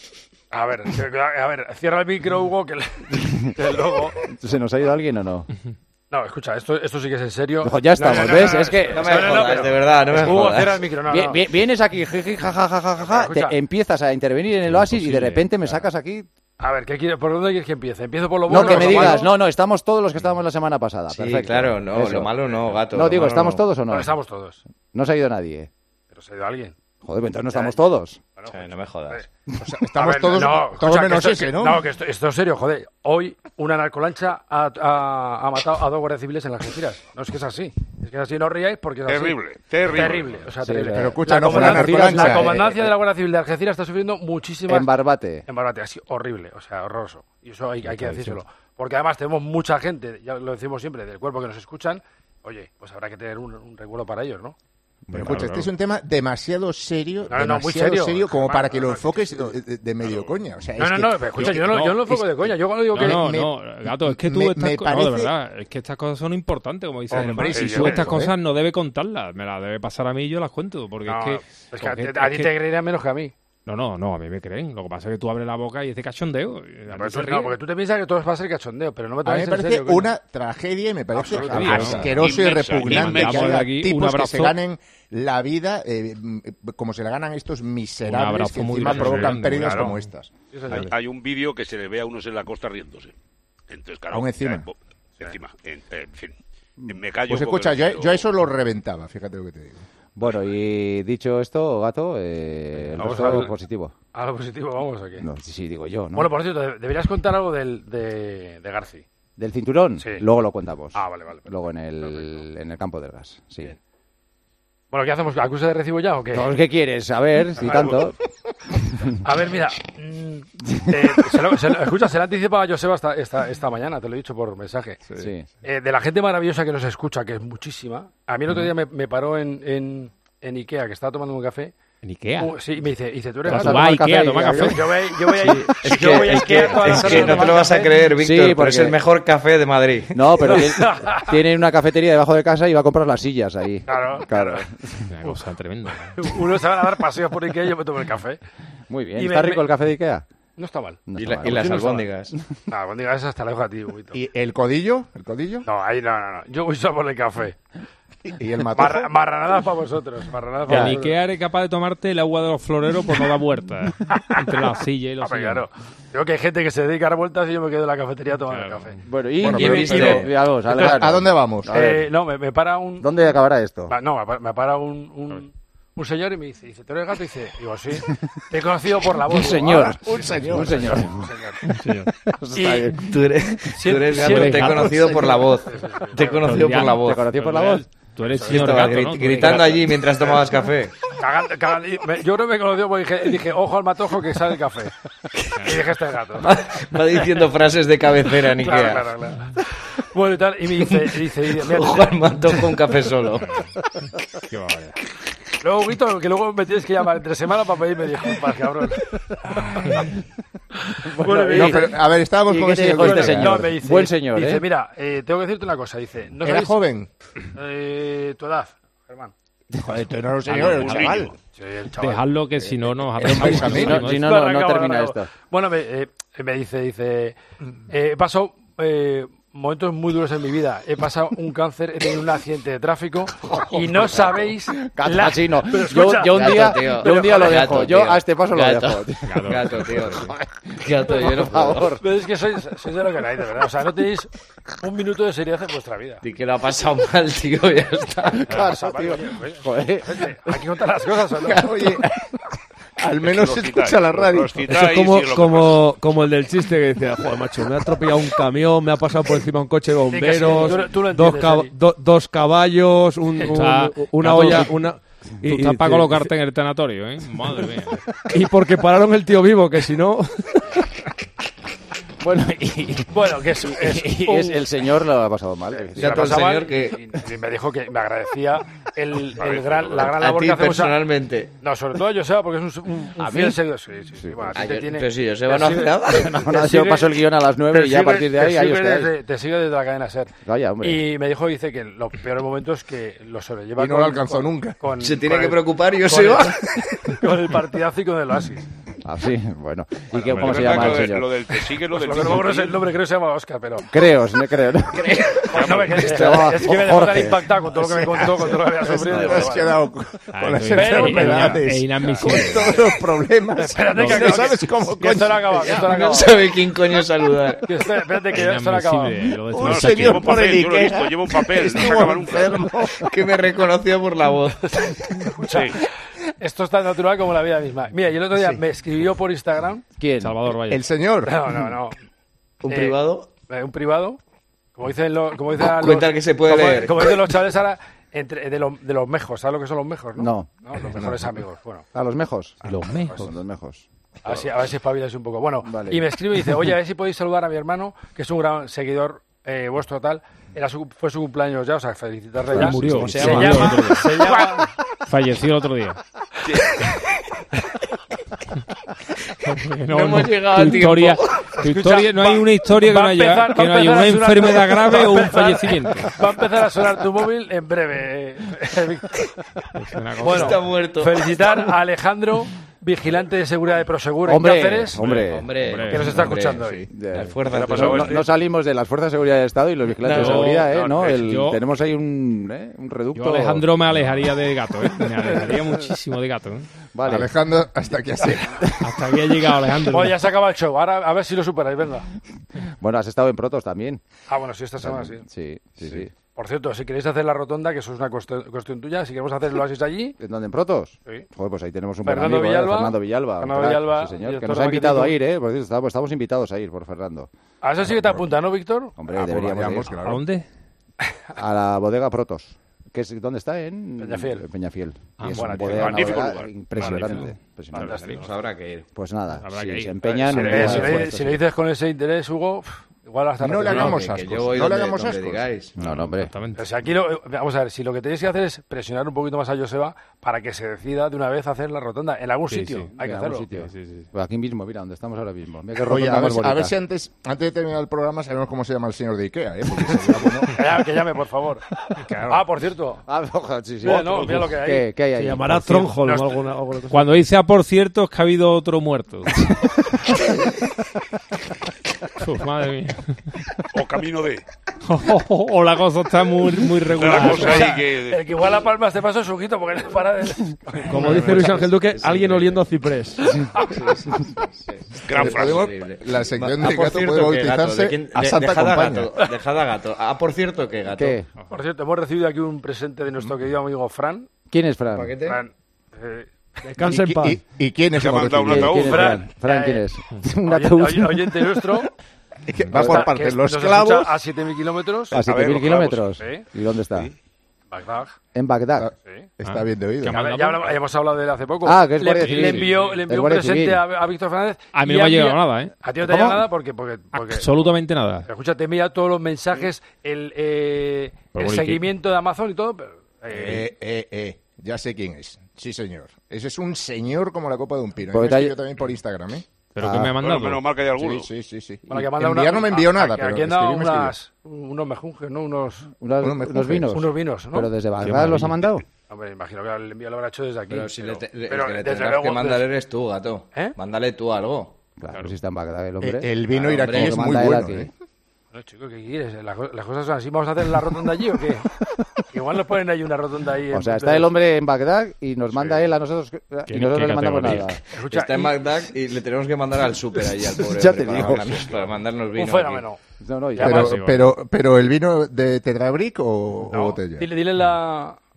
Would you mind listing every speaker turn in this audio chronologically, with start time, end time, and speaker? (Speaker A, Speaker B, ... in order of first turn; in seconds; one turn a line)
Speaker A: 0.5-4.2
Speaker B: 4.3-5.5
Speaker A: 6.1-11.5
Speaker B: 7.6-9.4
Speaker C: 8.9-10.8
Speaker B: 11.1-16.3
Speaker A: 13.0-13.6
Speaker D: 14.6-15.8
Speaker A: 16.6-19.4
Speaker B: 18.5-24.1
Speaker C: 21.1-23.6
Speaker A: 23.9-24.6
Speaker B: 24.9-25.7
Speaker A: 26.1-26.8
Speaker B: 27.0-28.2
Speaker A: 27.5-27.8
Speaker A: 28.4-29.2
Speaker C: 28.5-29.2
Speaker E: 29.6-31.8
Speaker A: 29.9-44.9
Speaker F: 39.0-40.5
Speaker B: 40.6-42.9
Speaker E: 40.9-42.7
Speaker B: 44.7-45.4
Speaker A: 45.5-54.5
Speaker B: 47.8-48.4
Speaker E: 55.1-62.2
Speaker D: 55.1-55.7
Speaker A: 57.3-59.6
Speaker A: 60.8-63.3
Speaker D: 61.4-62.1
Speaker D: 62.9-72.5
Speaker E: 62.9-65.3
Speaker A: 67.1-68.1
Speaker E: 67.1-68.3
Speaker A: 71.0-73.3
Speaker D: 73.7-77.5
Speaker A: 76.9-80.1
Speaker E: 79.2-90.3
Speaker A: 81.1-82.2
Speaker D: 81.4-82.3
Speaker B: 81.5-81.9
Speaker F: 82.1-83.5
Speaker D: 82.8-84.6
Speaker D: 88.0-90.1
Speaker A: 88.8-89.9
Speaker A: 90.5-90.9
Speaker F: 90.7-93.1
Speaker F: 93.7-98.3
Speaker E: 94.1-94.7
Speaker E: 97.3-99.8
Speaker B: 100.2-103.9
Speaker A: 102.8-103.5
Speaker A: 104.1-105.2
Speaker B: 105.2-106.3
Speaker A: 106.1-109.0
Speaker B: 109.4-113.7
Speaker A: 110.0-110.2
Speaker A: 110.9-112.4
Speaker A: 114.9-116.5
Speaker B: 116.3-118.1
Speaker A: 117.5-118.1
Speaker A: 119.2-125.0
Speaker B: 120.7-121.3
Speaker B: 125.2-125.5
Speaker A: 125.6-131.7
Speaker D: 132.0-132.6
Speaker A: 132.4-137.9
Speaker D: 133.4-135.7
Speaker B: 133.5-134.8
Speaker B: 135.4-137.5
Speaker C: 135.8-140.2
Speaker D: 136.5-137.6
Speaker B: 138.2-139.0
Speaker B: 140.1-145.0
Speaker A: 140.4-141.3
Speaker A: 143.9-144.7
Speaker D: 145.1-146.3
Speaker A: 146.0-148.4
Speaker B: 148.9-150.2
Speaker A: 149.2-149.7
Speaker A: 150.6-151.0
Speaker B: 151.1-152.5
Speaker C: 151.1-152.3
Speaker A: 152.7-154.2
Speaker E: 154.1-155.7
Speaker A: 155.6-157.6
Speaker E: 158.3-159.1
Speaker A: 158.7-161.2
Speaker D: 160.7-165.7
Speaker B: 160.7-161.0
Speaker A: 165.2-169.0
Speaker D: 168.5-169.0
Speaker B: 169.0-172.1
Speaker C: 169.4-170.3
Speaker A: 169.6-173.1
Speaker E: 170.8-171.7
Speaker B: 173.0-173.9
Speaker A: 173.9-181.6
Speaker B: 179.3-181.3
Speaker E: 180.1-180.9
Speaker D: 181.6-182.1
Speaker B: 182.4-183.2
Speaker A: 182.5-182.9
Speaker C: 183.0-187.2
Speaker A: 183.7-186.6
Speaker D: 184.1-185.3
Speaker B: 184.3-184.6
Speaker D: 186.2-189.9
Speaker B: 186.8-187.8
Speaker A: 188.3-189.6
Speaker C: 188.4-190.9
Speaker A: 191.2-194.9
Speaker D: 195.6-195.8
Speaker A: 195.6-196.5
Speaker C: 196.4-199.1
Speaker A: 198.5-199.6
Speaker A: 200.1-202.2
Speaker C: 200.8-203.5
Speaker D: 203.4-203.7
Speaker D: 204.5-204.9
Speaker A: 205.6-209.0
Speaker A: 209.5-210.0
Speaker D: 209.8-210.0
Speaker B: 211.2-211.9
Speaker A: 211.2-212.0
Speaker E: 211.5-213.6
Speaker B: 212.5-214.6
Speaker A: 212.9-216.8
Speaker E: 216.4-217.1
Speaker A: 217.6-219.3
Speaker E: 219.8-221.3
Speaker F: 220.5-221.3
Speaker A: 221.5-222.4
Speaker D: 222.0-224.3
Speaker E: 222.7-224.1
Speaker B: 223.2-225.3
Speaker A: 223.5-227.4
Speaker A: 227.9-237.8
Speaker B: 233.5-242.0
Speaker C: 236.3-240.3
Speaker D: 239.2-240.3
Speaker C: 240.8-241.9
Speaker A: 242.0-244.3
Speaker A: 244.8-246.2
Speaker C: 246.2-248.5
Speaker B: 248.4-250.1
Speaker A: 248.5-251.7
Speaker E: 251.4-252.1
Speaker E: 253.0-254.6
Speaker F: 253.2-255.8
Speaker G: 254.7-266.3
Speaker A: 260.1-261.7
Speaker D: 263.5-264.7
Speaker D: 265.5-268.0
Speaker G: 268.3-270.3
Speaker B: 272.2-273.1
Speaker A: 273.1-274.7
Speaker B: 273.7-276.4
Speaker A: 275.7-281.0
Speaker C: 276.0-277.0
Speaker F: 279.4-280.1
Speaker C: 279.9-281.5
Speaker A: 281.6-287.1
Speaker B: 283.2-283.6
Speaker B: 284.2-284.6
Speaker C: 284.5-286.2
Speaker B: 286.1-289.1
Speaker A: 287.7-298.6
Speaker B: 290.4-291.0
Speaker E: 293.8-294.8
Speaker C: 295.0-296.6
Speaker B: 299.0-301.3
Speaker F: 300.3-302.8
Speaker A: 301.9-303.9
Speaker B: 303.9-305.1
Speaker A: 305.0-309.8
Speaker F: 305.5-306.0
Speaker B: 305.9-307.5
Speaker E: 308.2-315.9
Speaker D: 309.2-309.4
Speaker D: 310.3-312.8
Speaker A: 310.6-312.8
Speaker A: 313.5-316.3
Speaker D: 313.9-314.5
Speaker C: 315.9-317.6
Speaker A: 317.6-319.3
Speaker D: 318.3-320.5
Speaker E: 319.5-323.0
Speaker F: 319.6-322.6
Speaker C: 323.0-324.6
Speaker A: 324.7-325.8
Speaker F: 325.5-325.8
Speaker A: 326.4-329.8
Speaker E: 328.3-328.6
Speaker B: 330.0-330.4
Speaker D: 330.2-330.9
Speaker E: 330.6-331.3
Speaker A: 331.2-331.9
Speaker C: 332.6-333.3
Speaker A: 332.7-334.2
Speaker A: 334.8-341.8
Speaker C: 335.6-337.1
Speaker B: 340.2-340.5
Speaker E: 340.9-341.4
Speaker B: 341.9-343.9
Speaker D: 342.6-343.3
Speaker A: 343.0-343.3
Speaker A: 344.2-354.7
Speaker B: 345.6-346.0
Speaker D: 352.5-354.4
Speaker B: 352.5-353.2
Speaker C: 352.9-353.8
Speaker D: 355.1-356.0
Speaker D: 359.4-366.1
Speaker C: 359.9-361.2
Speaker A: 361.6-369.3
Speaker D: 369.8-370.6
Speaker A: 370.1-375.2
Speaker C: 370.2-371.5
Speaker B: 374.2-375.5
Speaker C: 375.1-378.2
Speaker D: 375.6-376.3
Speaker A: 375.8-376.9
Speaker B: 376.9-384.2
Speaker A: 377.8-378.2
Speaker C: 380.0-380.5
Speaker D: 380.1-381.6
Speaker A: 380.3-381.4
Speaker D: 383.1-386.7
Speaker B: 386.9-387.3
Speaker E: 387.0-388.6
Speaker D: 388.8-390.2
Speaker A: 389.9-392.1
Speaker B: 392.8-394.0
Speaker A: 394.3-395.2
Speaker B: 394.8-396.1
Speaker A: 396.3-400.2
Speaker B: 400.2-407.3
Speaker A: 402.0-405.2
Speaker A: 407.6-409.0
Speaker E: 407.8-408.3
Speaker B: 409.0-409.9
Speaker E: 409.1-410.2
Speaker D: 410.0-410.4
Speaker B: 411.4-418.0
Speaker A: 414.0-414.5
Speaker D: 415.2-415.9
Speaker A: 415.2-418.3
Speaker F: 415.7-416.6
Speaker D: 416.7-418.2
Speaker C: 418.1-418.9
Speaker B: 418.9-421.4
Speaker D: 419.4-421.1
Speaker A: 420.0-424.1
Speaker E: 423.4-425.5
Speaker C: 423.6-425.8
Speaker B: 425.8-426.3
Speaker D: 425.8-426.7
Speaker A: 426.6-433.5
Speaker D: 432.5-432.9
Speaker B: 433.0-436.7
Speaker D: 433.5-434.1
Speaker E: 435.8-440.5
Speaker A: 440.5-441.6
Speaker D: 442.0-442.4
Speaker A: 442.1-443.0
Speaker B: 443.1-445.9
Speaker A: 443.8-445.0
Speaker G: 445.1-447.2
Speaker A: 445.9-446.4
Speaker D: 446.9-449.4
Speaker D: 452.2-453.2
Speaker F: 453.7-454.4
Speaker D: 454.9-457.8
Speaker F: 456.9-458.2
Speaker A: 457.0-461.6
Speaker G: 460.9-463.2
Speaker D: 460.9-461.4
Speaker C: 461.8-462.6
Speaker A: 463.6-463.9
Speaker C: 463.8-464.0
Speaker C: 464.6-471.2
Speaker F: 465.0-465.7
Speaker E: 465.1-469.1
Speaker B: 470.9-471.3
Speaker A: 471.5-474.3
Speaker B: 474.5-475.1
Speaker C: 474.9-475.4
Speaker A: 475.2-476.3
Speaker G: 476.6-477.4
Speaker E: 476.9-478.8
Speaker F: 478.0-479.1
Speaker B: 478.5-481.2
Speaker A: 478.7-479.9
Speaker A: 480.4-481.9
Speaker E: 482.4-484.1
Speaker B: 482.7-483.1
Speaker A: 482.7-485.2
Speaker F: 485.1-486.1
Speaker B: 485.1-487.1
Speaker A: 486.2-486.5
Speaker A: 487.7-488.1
Speaker B: 488.3-488.9
Speaker E: 488.8-490.2
Speaker D: 489.4-490.8
Speaker A: 490.0-503.7
Speaker B: 491.6-493.8
Speaker D: 492.2-492.8
Speaker D: 494.7-495.7
Speaker B: 496.0-496.4
Speaker D: 497.1-498.3
Speaker D: 501.3-501.9
Speaker E: 503.3-509.4
Speaker B: 508.1-508.6
Speaker D: 509.7-510.7
Speaker B: 509.8-510.1
Speaker F: 510.2-511.3
Speaker E: 510.9-514.1
Speaker A: 511.9-515.9
Speaker B: 516.0-518.8
Speaker E: 516.2-516.8
Speaker A: 516.8-517.7
Speaker D: 518.1-518.5
Speaker A: 519.0-522.7
Speaker C: 520.7-524.8
Speaker B: 525.0-526.3
Speaker E: 526.0-527.9
Speaker A: 526.5-526.9
Speaker C: 526.5-527.2
Speaker B: 526.9-527.9
Speaker A: 528.5-531.7
Speaker A: 532.3-534.3
Speaker B: 533.7-537.8
Speaker D: 536.7-537.8
Speaker A: 537.9-538.5
Speaker C: 538.0-542.9
Speaker B: 540.6-541.7
Speaker A: 541.6-543.0
Speaker B: 543.2-544.0
Speaker A: 543.6-544.0
Speaker D: 543.6-544.3
Speaker E: 543.6-547.3
Speaker A: 546.7-548.2